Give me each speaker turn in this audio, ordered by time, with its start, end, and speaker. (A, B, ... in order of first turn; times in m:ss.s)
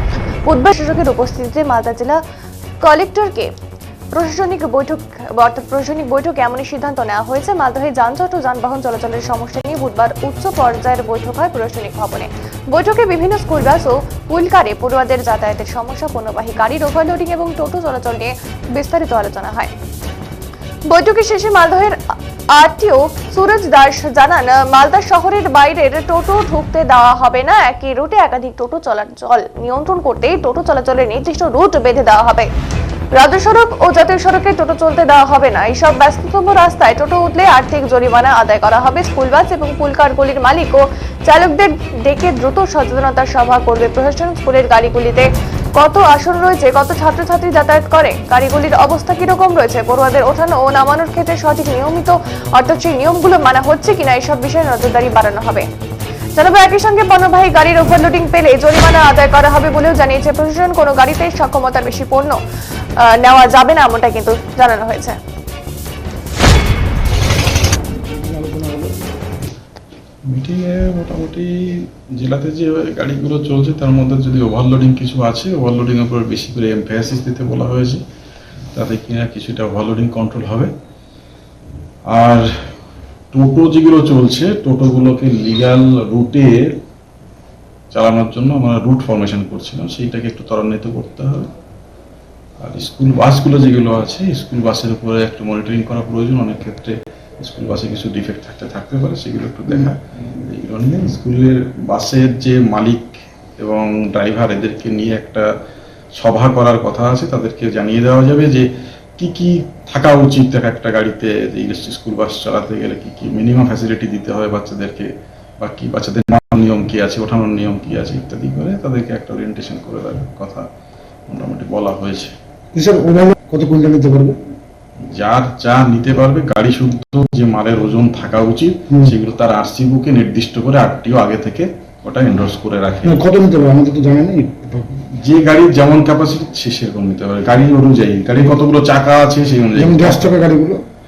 0:00.4-0:02.2 A
0:02.8-0:03.5 A
0:04.1-0:19.7 A
0:20.9-0:22.0 A
0:22.5-0:32.5 A
0:33.1-0:55.6 A
0:56.4-1:02.4 A
1:03.0-1:05.2 A
1:07.9-1:09.0 B
1:10.3-1:18.0 C
1:18.7-1:20.7 C
1:22.1-1:22.5 C
1:23.3-1:26.8 C
1:27.9-1:31.5 C
1:32.6-1:45.5 C
1:46.2-2:00.6 C
2:01.3-2:02.3 C
2:02.7-2:04.4 B
2:05.1-2:13.2 C
2:08.9-2:09.1 B
2:13.0-2:14.9 B
2:15.1-2:20.4 C
2:19.7-2:20.8 B